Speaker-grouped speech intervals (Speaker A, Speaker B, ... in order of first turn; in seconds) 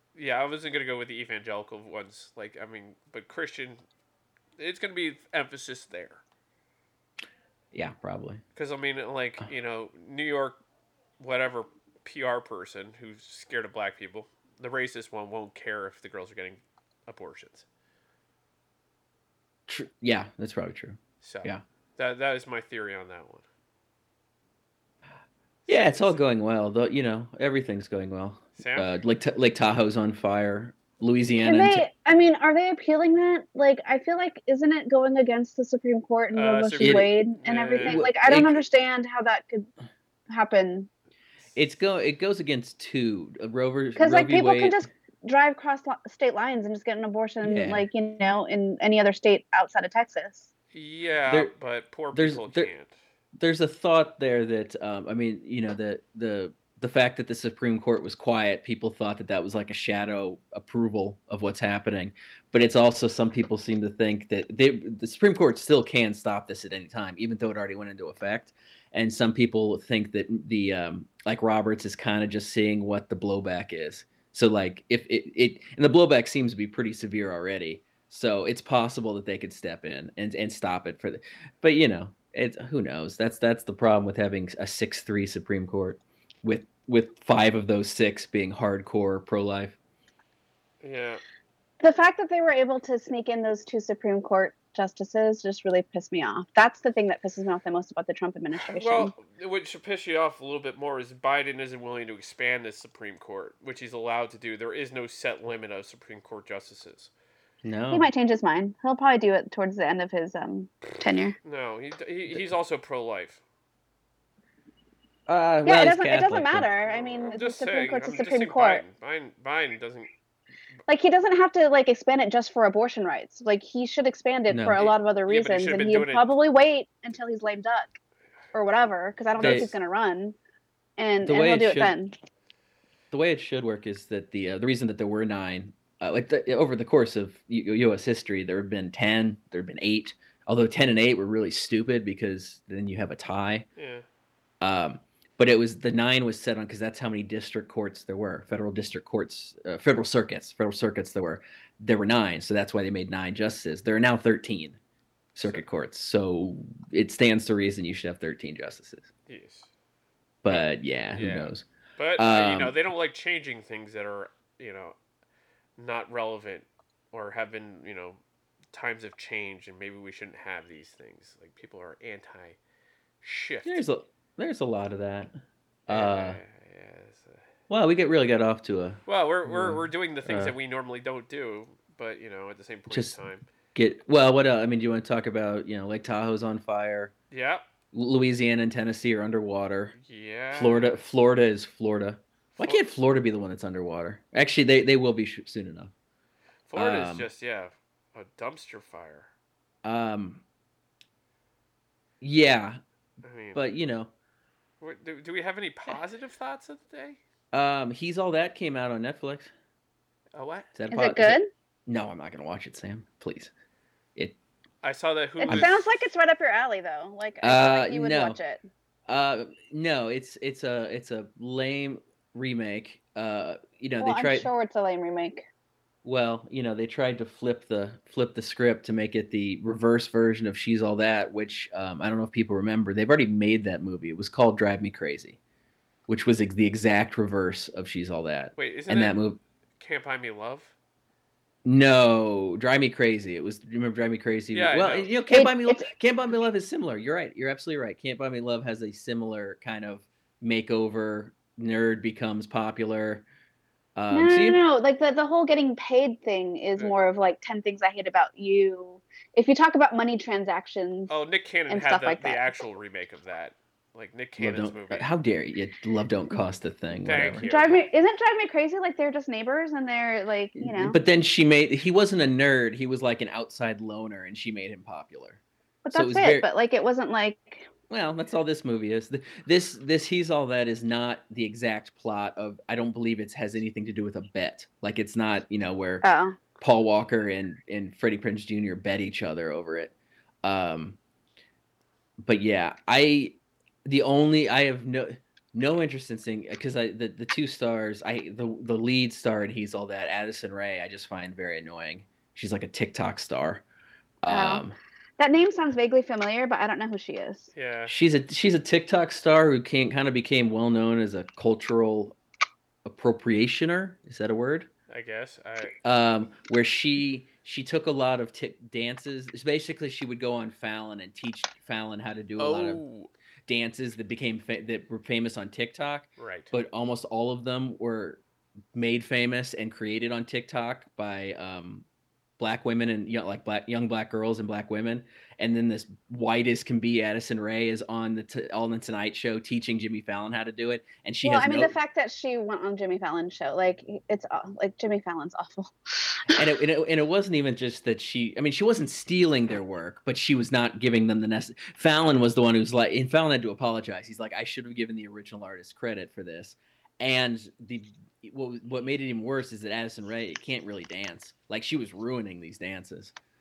Speaker A: 0.1-3.8, 4.6-6.2, 8.6-10.6, 11.2-17.6, 21.2-23.4, 25.6-26.2, 28.6-28.9, 36.3-38.0, 50.7-52.9, 90.8-91.2, 98.6-107.1, 111.4-113.4, 116.9-120.1, 124.8-126.3, 129.3-129.7, 143.8-144.1, 159.3-159.7, 160.5-164.9, 165.8-168.2, 168.7-172.6, 173.2-173.8, 175.9-177.4, 179.1-183.4, 187.3-187.6, 190.0-191.0, 192.6-192.8, 196.7-199.3, 203.2-203.6, 204.8-207.2, 210.3-210.7, 214.8-216.0, 238.6-239.2, 239.8-240.7, 244.5-245.1, 261.1-265.1, 267.0-267.9, 307.5-307.9, 314.9-315.8, 322.4-323.1, 326.2-326.5
Speaker B: 7.7-8.4, 19.7-21.6, 25.7-31.9, 36.8-37.1, 37.8-38.6, 41.5-44.8, 47.4-47.9, 51.3-51.5, 52.1-52.7, 53.4-89.8, 107.6-108.1, 115.3-116.7, 124.5-124.8, 129.4-129.7, 131.2-131.9, 133.1-143.7, 144.6-154.8, 155.3-159.1, 160.4-161.7, 162.2-162.7, 173.6-175.3, 175.9-176.4, 177.7-180.5, 182.9-183.2, 183.7-187.1, 187.9-189.9, 190.5-195.9, 196.8-197.3, 199.8-200.4, 202.2-202.8, 203.5-204.1, 207.5-209.5, 210.7-213.5, 217.4-218.4, 219.1-224.5, 226.0-235.4, 236.1-239.4, 241.6-253.2, 253.9-254.6, 264.4-267.5, 270.6-275.4, 275.9-276.5, 277.9-286.0, 286.6-291.0, 292.2-303.6, 304.2-304.8, 307.9-312.1, 312.8-314.7, 315.8-322.8, 323.5-328.2, 328.7-331.8, 332.4-341.7, 346.3-363.1
Speaker C: 31.4-39.7, 40.3-40.9, 44.0-50.5, 91.8-99.1, 107.9-111.3, 115.6-118.8, 120.9-128.0, 128.5-130.3, 131.0-132.1, 210.9-211.5, 215.4-218.6, 224.0-225.4, 245.3-245.9, 254.1-261.1, 261.7-262.6, 267.4-271.0, 275.8-277.7, 286.0-286.4, 304.3-304.6, 305.2-307.5, 341.2-346.4